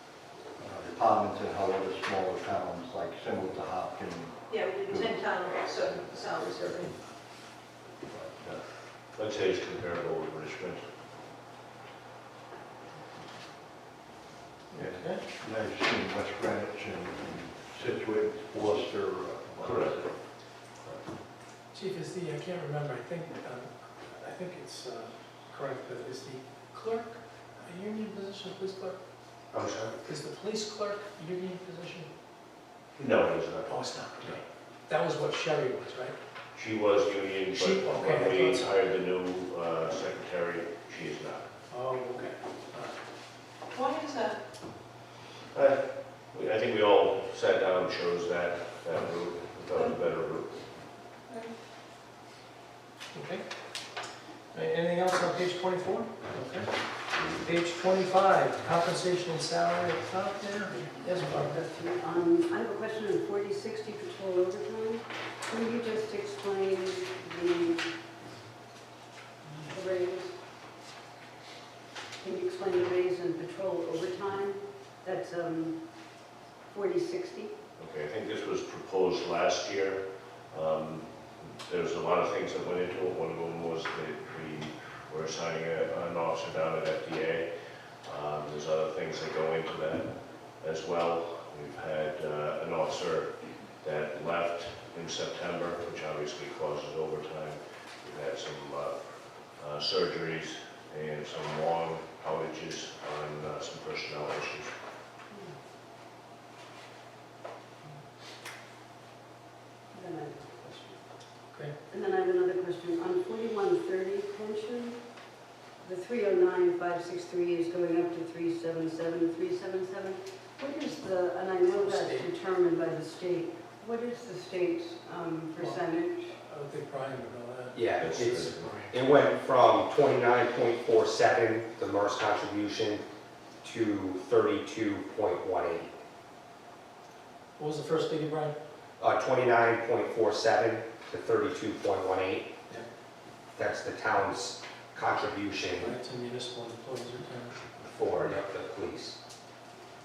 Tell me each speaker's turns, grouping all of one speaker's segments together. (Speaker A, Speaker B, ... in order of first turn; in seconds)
Speaker A: 0.6-4.3, 4.8-5.1, 14.8-20.1
Speaker B: 4.5-7.0, 43.7-44.4
Speaker C: 9.1-10.8, 19.6-19.9, 29.5-29.9, 33.0-34.4, 36.5-41.5, 45.5-45.8, 46.3-50.5, 77.8-87.5, 88.0-90.1, 90.6-98.9, 99.6-104.7, 128.0-128.7
Speaker D: 14.7-15.2, 21.7-29.0, 30.0-32.1, 33.6-36.1, 37.5-38.7, 41.7-42.9, 53.1-53.4, 54.5-56.7, 57.3-61.5, 121.8-122.3, 126.3-128.9, 137.6-138.5, 145.7-147.6, 148.1-148.3
Speaker E: 61.2-67.9, 69.6-70.4, 72.2-75.8, 76.7-77.5, 105.3-105.5, 109.9-111.0, 111.9-115.0, 115.8-126.3
Speaker F: 127.7-128.3, 128.9-133.0, 133.6-135.9, 139.0-142.5, 143.6-145.9, 147.8-149.2